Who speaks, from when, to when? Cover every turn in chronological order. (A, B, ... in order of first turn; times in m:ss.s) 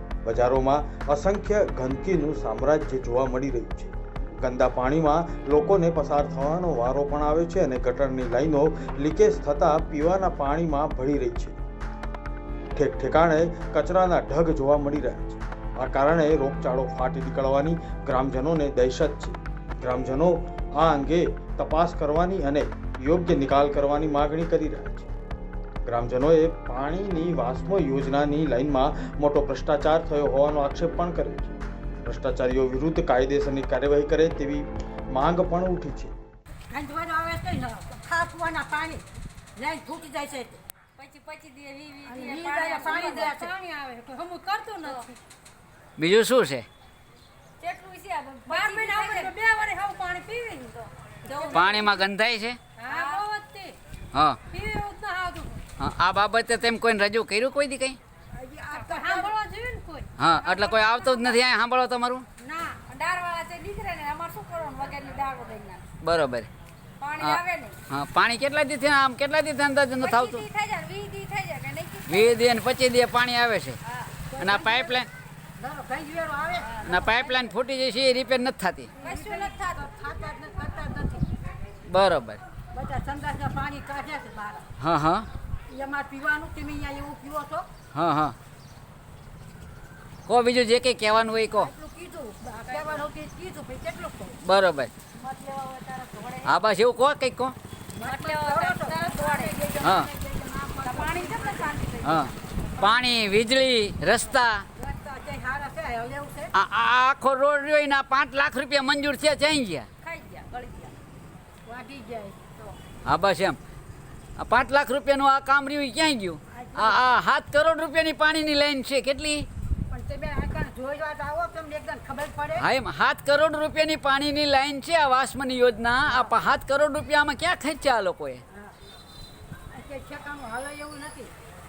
0:00.2-0:11.6 A
0:12.7-0:25.1 A
0:25.8-0:36.1 A
0:36.7-0:39.0 B
0:39.6-0:40.6 B
0:41.0-0:43.5 C
0:42.0-0:45.2 B
0:44.8-0:45.1 C
0:46.0-0:46.6 D
0:47.6-0:49.4 C
0:48.5-0:51.9 B
0:51.2-0:52.0 C
0:51.5-0:52.6 D
0:52.8-0:53.8 B
0:52.8-0:53.2 C
0:54.1-0:54.4 D
0:54.5-0:55.6 B
0:55.8-0:58.0 D
0:58.3-1:00.5 B
0:58.7-0:59.3 C
1:00.2-1:02.2 D
1:00.4-1:01.4 C
1:02.4-1:02.8 B
1:02.8-1:05.8 C
1:06.0-1:06.5 D
1:07.0-1:07.8 C
1:07.2-1:10.4 D
1:10.0-1:12.5 C
1:12.1-1:13.8 D
1:13.8-1:14.2 C
1:14.3-1:15.0 B
1:14.4-1:15.1 D
1:15.6-1:17.1 B
1:16.6-1:17.0 C
1:16.8-1:18.9 D
1:19.0-1:21.3 B
1:19.0-1:19.9 C
1:21.8-1:22.4 D
1:22.7-1:24.7 B
1:24.8-1:25.3 D
1:25.7-1:27.7 B
1:27.9-1:28.4 D
1:30.3-1:31.7 D
1:31.6-1:34.4 B
1:32.6-1:33.0 C
1:34.4-1:34.9 D
1:35.2-1:36.6 C
1:36.4-1:37.5 D
1:37.9-1:41.8 B
1:38.0-1:39.8 C
1:39.8-1:40.1 D
1:40.8-1:42.4 C
1:42.0-1:44.6 D
1:44.8-1:46.5 B
1:46.5-1:49.9 D
1:50.0-1:50.9 C
1:51.6-1:52.6 B
1:53.0-1:53.6 D
1:54.4-1:59.5 D
1:56.5-1:57.0 B
1:59.9-2:02.7 B
2:02.6-2:08.4 D
2:09.7-2:11.3 B